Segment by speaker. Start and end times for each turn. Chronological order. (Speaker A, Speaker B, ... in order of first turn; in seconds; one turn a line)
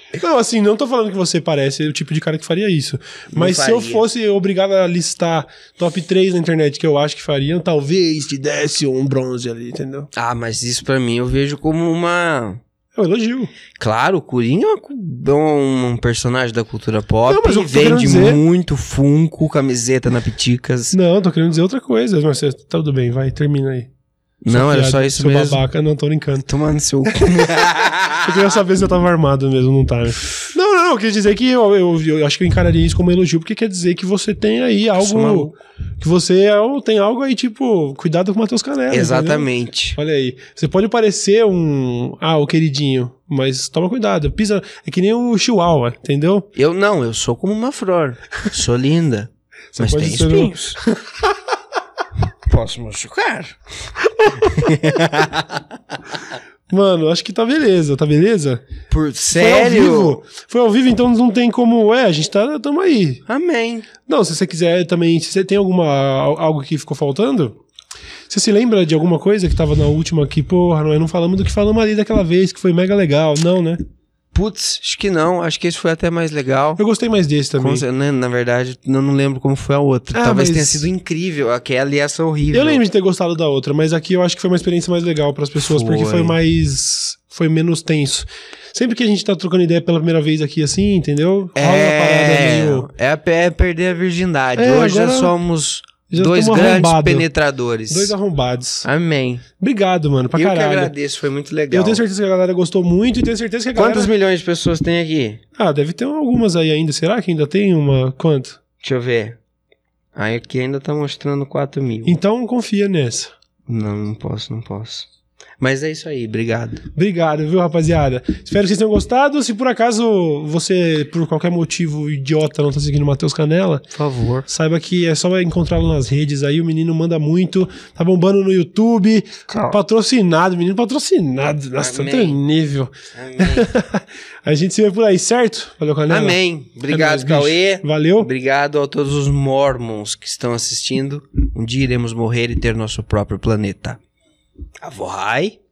Speaker A: 0.2-10.1
Speaker B: 3.3-4.0
Speaker B: 10.1-12.6
Speaker A: 12.9-13.5
Speaker B: 13.8-20.9
Speaker A: 17.2-18.4
Speaker A: 20.9-23.9
Speaker B: 24.4-25.6
Speaker A: 24.5-26.5
Speaker B: 26.5-28.4
Speaker A: 28.1-46.5
Speaker B: 35.0-35.5
Speaker B: 38.9-40.0
Speaker B: 46.5-50.8
Speaker A: 49.7-51.2
Speaker B: 52.5-53.6
Speaker A: 54.1-55.0
Speaker B: 54.4-55.6
Speaker A: 56.7-58.6
Speaker B: 58.9-60.2
Speaker A: 59.3-63.2
Speaker B: 63.3-63.9
Speaker A: 64.0-67.6
Speaker A: 68.3-73.8
Speaker B: 74.3-76.8
Speaker A: 76.8-77.8
Speaker B: 77.6-82.8
Speaker A: 80.1-80.9
Speaker A: 82.5-92.9
Speaker B: 85.5-86.3
Speaker B: 91.5-98.1
Speaker A: 94.5-95.4
Speaker A: 96.1-97.3
Speaker A: 97.9-98.9
Speaker B: 98.8-99.4
Speaker A: 99.6-100.9
Speaker B: 100.3-102.0
Speaker A: 101.7-104.1
Speaker B: 103.7-105.4
Speaker A: 105.6-108.6
Speaker B: 108.8-109.4
Speaker B: 110.1-112.2
Speaker A: 112.0-113.3
Speaker B: 113.7-115.1
Speaker B: 115.6-116.8
Speaker A: 116.9-123.9
Speaker B: 123.9-124.5
Speaker A: 124.5-136.4
Speaker B: 129.5-129.8
Speaker B: 131.8-132.4
Speaker B: 133.1-133.7
Speaker B: 136.1-144.0
Speaker A: 136.9-138.3
Speaker B: 144.8-145.6